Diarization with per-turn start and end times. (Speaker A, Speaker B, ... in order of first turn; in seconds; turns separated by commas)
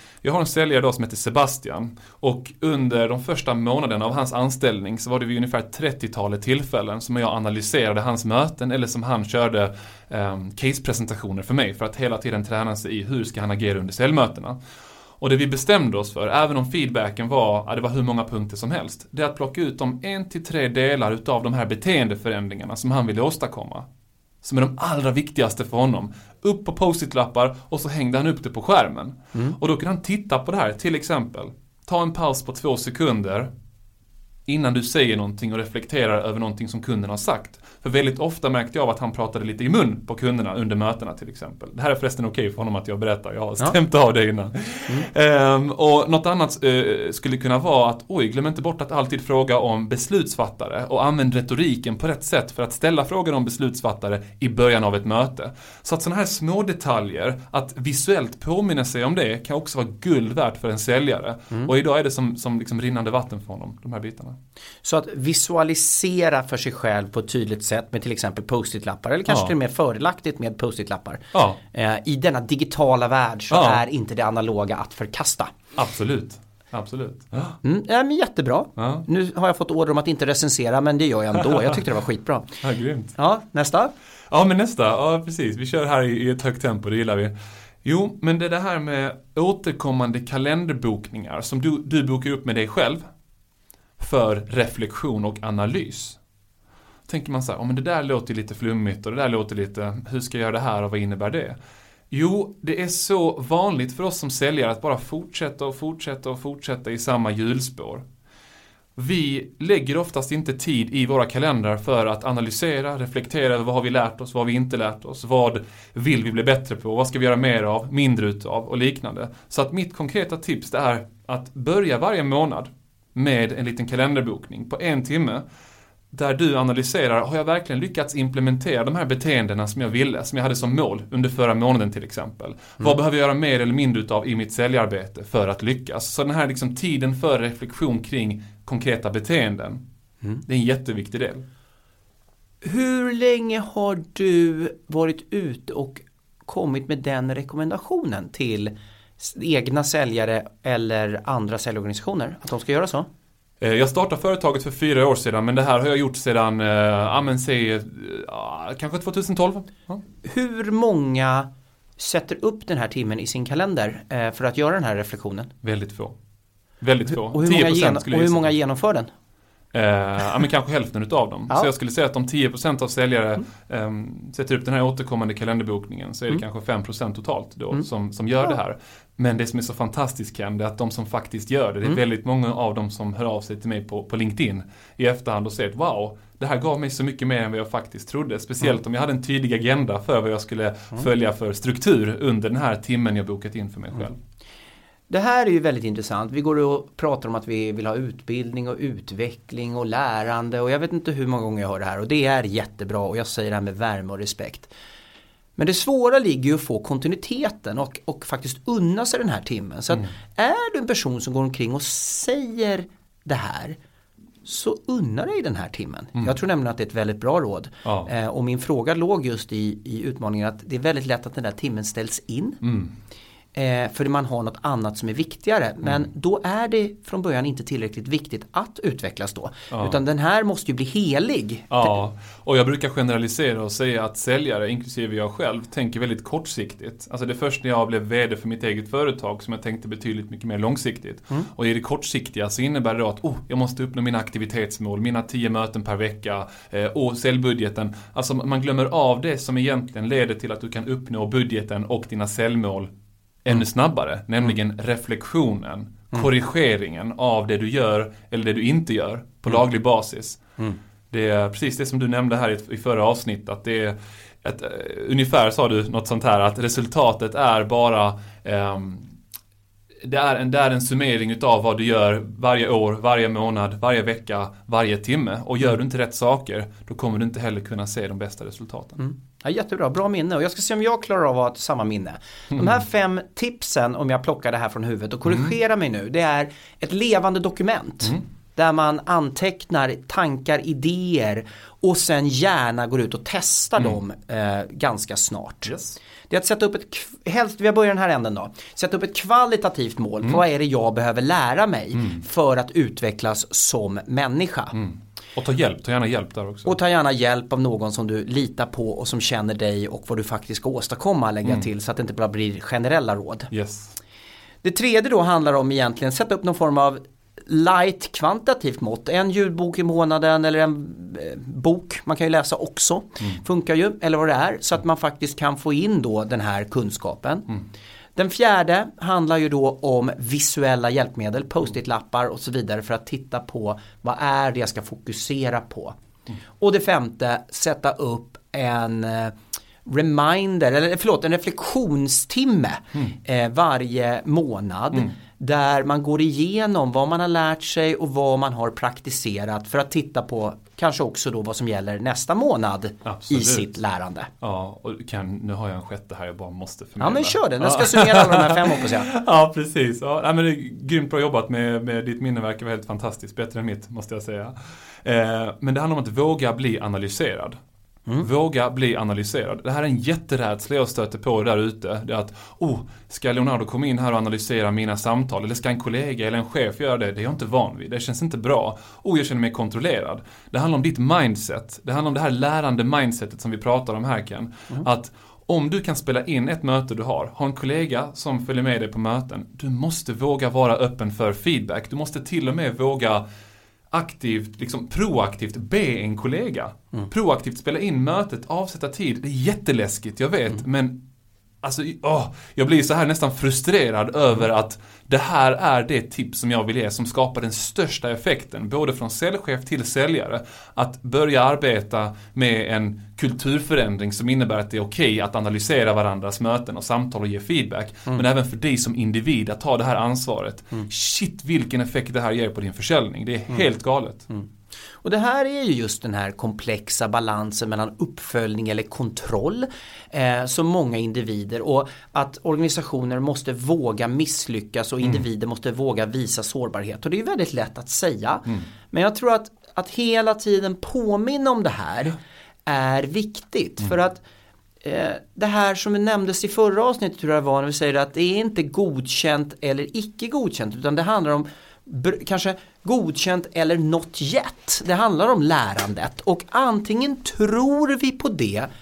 Speaker A: 0.2-14.6, Speaker A: 15.2-23.9, Speaker A: 24.4-33.5, Speaker A: 34.5-64.4, Speaker B: 64.8-75.5, Speaker A: 69.3-69.5, Speaker A: 71.3-71.6, Speaker A: 73.5-73.8, Speaker A: 75.7-77.6, Speaker B: 77.6-82.6, Speaker A: 78.8-79.0, Speaker A: 82.6-83.1, Speaker B: 83.1-83.9, Speaker A: 84.3-93.0, Speaker A: 94.0-96.2, Speaker A: 97.1-101.6, Speaker A: 102.1-108.0, Speaker A: 109.0-125.4, Speaker A: 126.1-139.8, Speaker A: 140.4-141.4, Speaker B: 142.6-153.1, Speaker A: 153.6-160.0, Speaker B: 160.2-165.5, Speaker A: 165.6-166.2, Speaker A: 166.8-168.5, Speaker B: 167.1-169.1, Speaker A: 169.7-194.2, Speaker B: 195.1-204.7, Speaker B: 205.6-213.8, Speaker B: 214.4-222.6, Speaker A: 217.8-218.1, Speaker A: 222.6-222.9, Speaker B: 223.5-231.9, Speaker A: 229.7-230.0, Speaker A: 231.7-252.9, Speaker A: 253.4-260.4, Speaker A: 261.1-269.1, Speaker A: 270.0-279.0, Speaker B: 279.0-295.7, Speaker A: 295.7-295.9, Speaker B: 296.3-304.8, Speaker A: 304.7-306.7, Speaker B: 306.6-313.5, Speaker A: 313.5-314.0, Speaker B: 314.6-327.5, Speaker B: 328.1-335.9, Speaker B: 336.6-354.3, Speaker A: 353.0-353.7, Speaker A: 354.4-367.6, Speaker B: 357.0-359.1, Speaker A: 368.2-393.2, Speaker A: 393.9-401.0, Speaker A: 401.6-424.3, Speaker B: 425.0-444.2, Speaker B: 444.8-458.7